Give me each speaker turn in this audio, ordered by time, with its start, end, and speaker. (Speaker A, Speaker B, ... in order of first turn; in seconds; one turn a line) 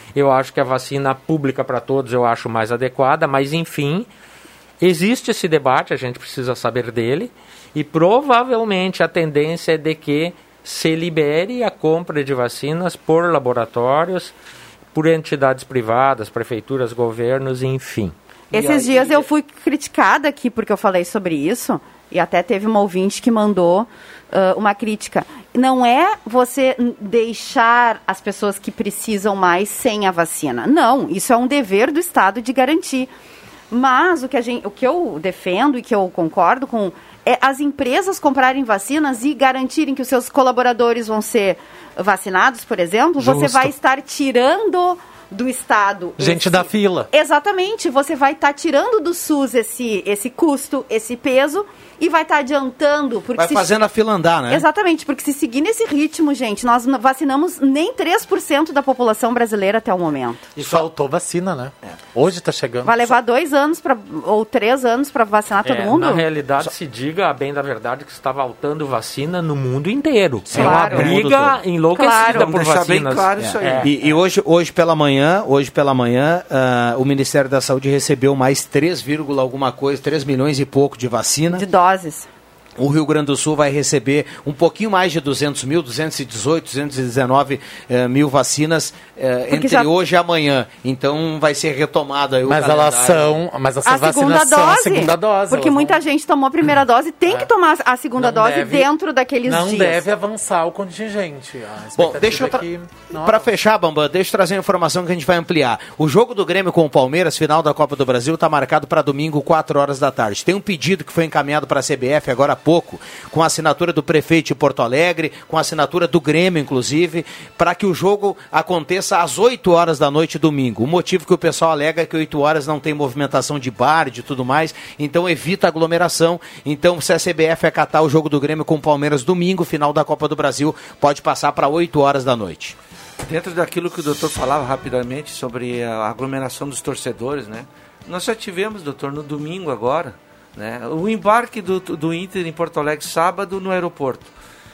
Speaker A: 0.1-4.1
Speaker A: 4.8-14.3
Speaker A: 14.9-18.1
Speaker B: 18.5-19.3
Speaker C: 18.5-33.1
Speaker C: 33.7-53.7
Speaker D: 43.2-43.7
Speaker D: 46.2-47.1
Speaker E: 53.4-54.6
Speaker C: 54.5-60.5
Speaker D: 60.6-63.1
Speaker C: 62.8-66.3
Speaker A: 65.6-74.1
Speaker E: 70.5-71.6
Speaker C: 70.5-71.2
Speaker C: 72.0-72.5
Speaker B: 72.1-73.9
Speaker E: 73.4-81.7
Speaker C: 81.5-82.3
Speaker E: 82.8-93.4
Speaker C: 89.5-89.9
Speaker D: 92.5-96.0
Speaker C: 93.9-100.0
Speaker D: 98.2-98.9
Speaker D: 99.5-103.5
Speaker E: 102.0-132.8
Speaker B: 133.2-144.3